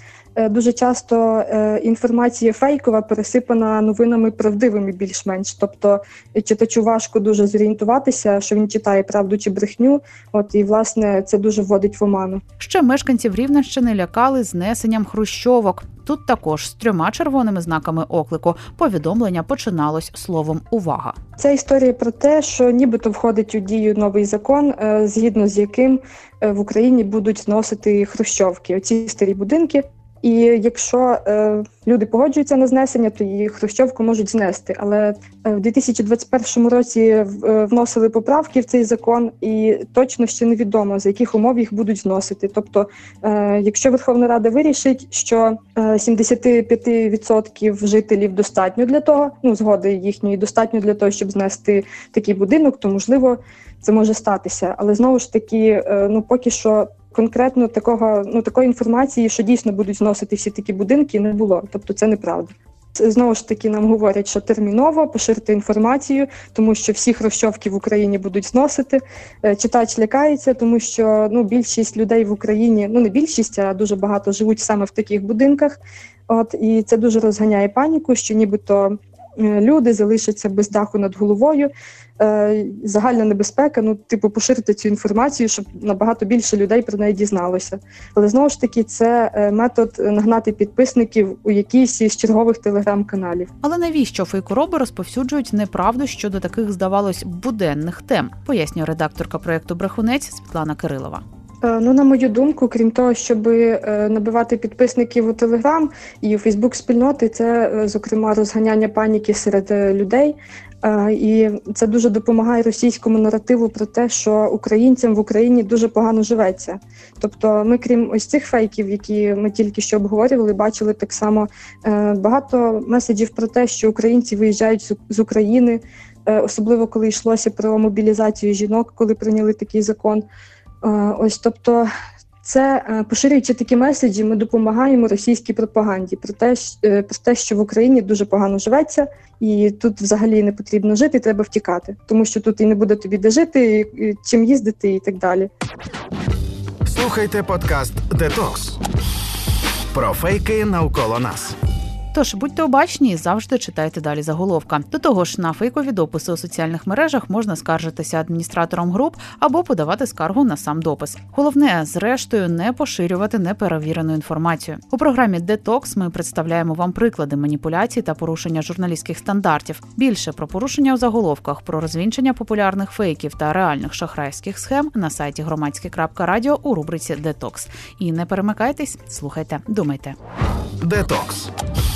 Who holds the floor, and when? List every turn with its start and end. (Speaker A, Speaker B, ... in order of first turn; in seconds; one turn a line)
Speaker A: 0.3-12.4
Speaker B: 12.6-21.1
Speaker A: 21.4-93.5
Speaker B: 93.6-101.2
Speaker A: 101.6-130.2
Speaker A: 130.8-131.9
Speaker A: 132.4-145.5
Speaker C: 146.8-148.8
Speaker C: 149.9-151.6
Speaker B: 152.1-180.2
Speaker C: 180.8-181.5